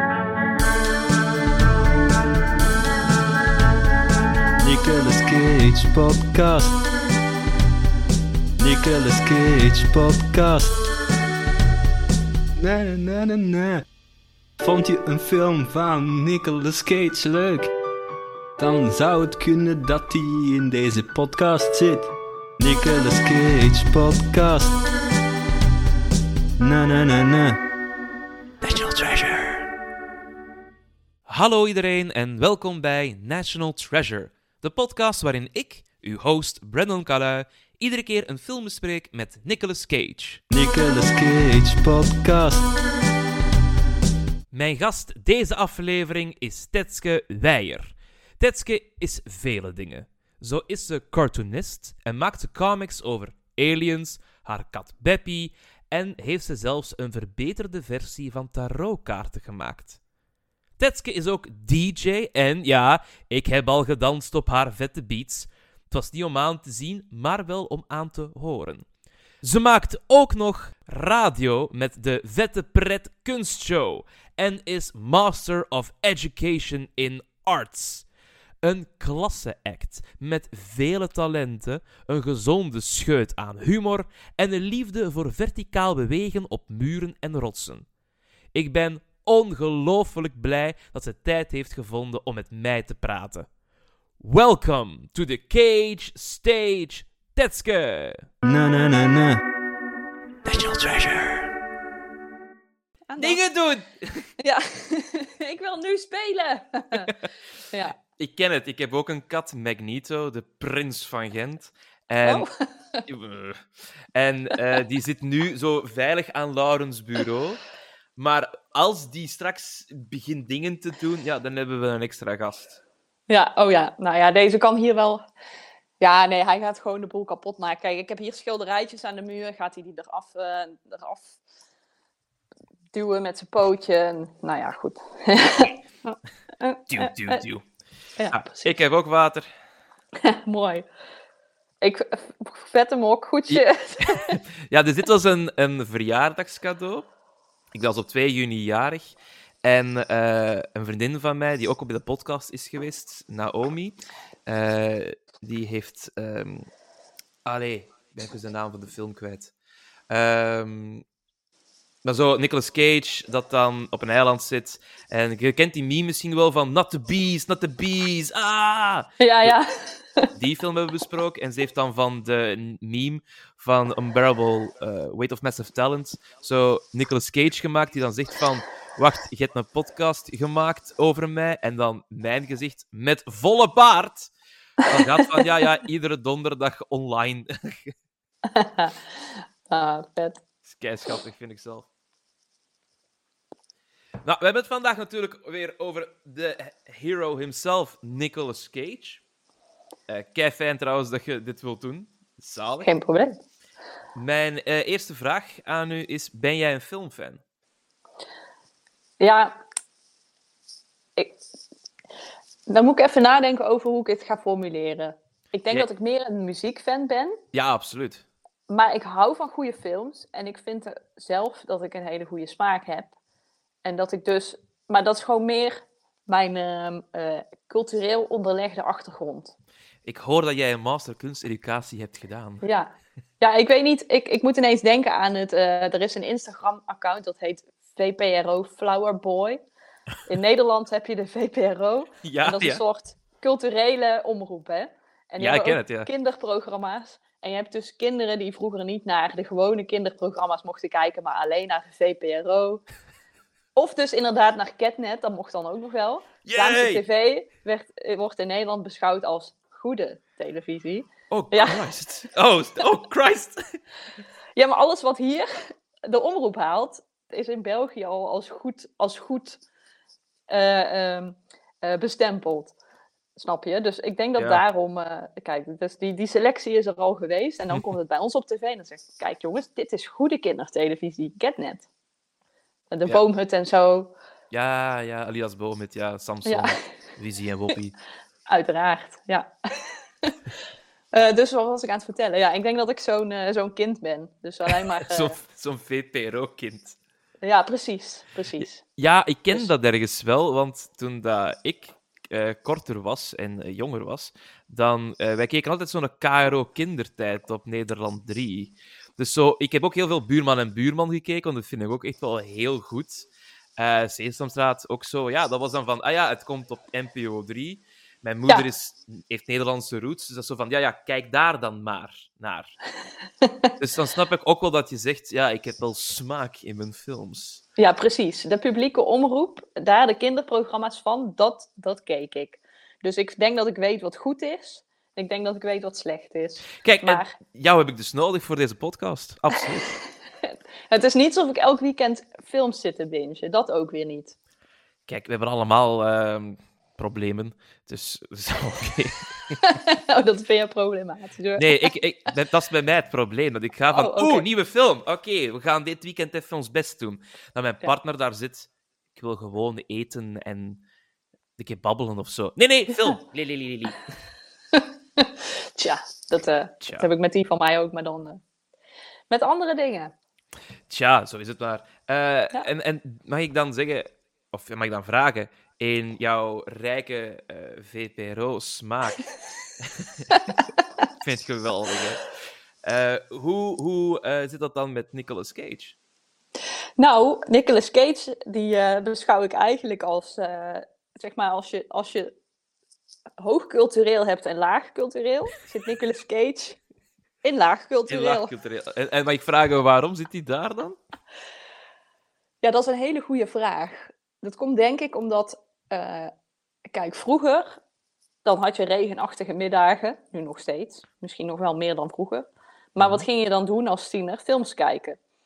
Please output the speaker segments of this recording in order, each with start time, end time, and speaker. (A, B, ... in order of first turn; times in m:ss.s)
0:04.6-0:06.8 A
0:08.6-0:10.7 A
0:12.6-0:13.8 A
0:14.6-0:17.7 A
0:18.6-0:24.8 A
0:26.6-0:27.6 A
0:28.6-0:29.7 B
0:31.3-0:40.4 B
0:40.5-0:42.7 A
0:44.5-1:00.0 B
1:00.8-1:08.9 B
1:09.4-1:18.1 B
1:18.6-1:27.9 B
1:28.5-1:33.5 B
1:34.2-1:38.3 B
1:38.4-1:39.4 A
1:40.5-1:41.5 B
1:43.1-1:43.4 C
1:43.2-1:44.3 B
1:44.4-1:47.1 C
1:48.2-1:52.5 B
1:52.2-1:53.1 C
1:53.1-1:57.6 B
1:58.2-2:02.8 B
2:03.3-2:05.2 C
2:06.0-2:11.4 C
2:12.9-2:17.4 C
2:16.9-2:17.6 B
2:18.2-2:18.8 C
2:18.3-2:19.5 B
2:20.2-2:20.9 C
2:21.8-2:24.4 C
2:23.5-2:27.1 B
2:27.7-2:36.7 B
2:37.5-2:39.5 B
2:40.1-2:41.0 B
2:42.0-2:49.6 B
2:49.2-2:50.3 C
2:50.3-3:04.3 B
3:04.8-3:07.9 B
3:08.5-3:09.0 C
3:09.7-3:10.4 C
3:10.6-3:11.9 B
3:14.2-3:19.2 B
3:20.1-3:22.9 B
3:22.8-3:23.4 C
3:24.2-3:27.4 B
3:29.2-3:29.6 C
3:32.7-3:37.4 C
3:37.5-3:38.3 B
3:38.7-3:43.1 C
3:43.8-3:49.5 C
3:50.0-3:52.6 B
3:52.6-3:59.6 C
4:00.3-4:12.8 C
4:02.2-4:02.8 B
4:05.4-4:06.1 B
4:13.8-4:21.8 C
4:16.4-4:17.0 B
4:21.3-4:23.6 B
4:24.6-4:29.6 C
4:30.5-4:32.8 C
4:33.4-4:41.8 C
4:34.4-4:34.6 B
4:42.9-4:44.1 C
4:44.5-4:48.0 B
4:46.5-4:46.7 C
4:48.5-4:50.4 C
4:51.1-4:55.4 C
4:55.1-4:57.0 B
4:57.4-4:58.8 C
4:58.6-5:13.3 B
5:13.8-5:22.7 B
5:23.4-5:23.7 C
5:23.8-5:27.6 B
5:27.8-5:37.3 C
5:36.8-5:40.0 B
5:40.4-5:44.3 C
5:45.1-5:49.8 B
5:49.6-5:51.9 C
5:51.6-6:00.8 B
5:53.9-5:54.5 C
6:01.6-6:04.2 B
6:04.7-6:08.4 C
6:06.8-6:07.1 B
6:09.3-6:10.1 C
6:10.9-6:19.3 B
6:19.8-6:20.6 B
6:21.2-6:22.3 B
6:22.8-6:26.0 B
6:27.0-6:32.4 C
6:33.4-6:36.8 C
6:37.4-6:38.5 C
6:38.1-6:41.0 B
6:42.6-6:46.3 C
6:46.9-6:47.8 C
6:48.4-6:55.2 C
6:53.0-6:53.3 B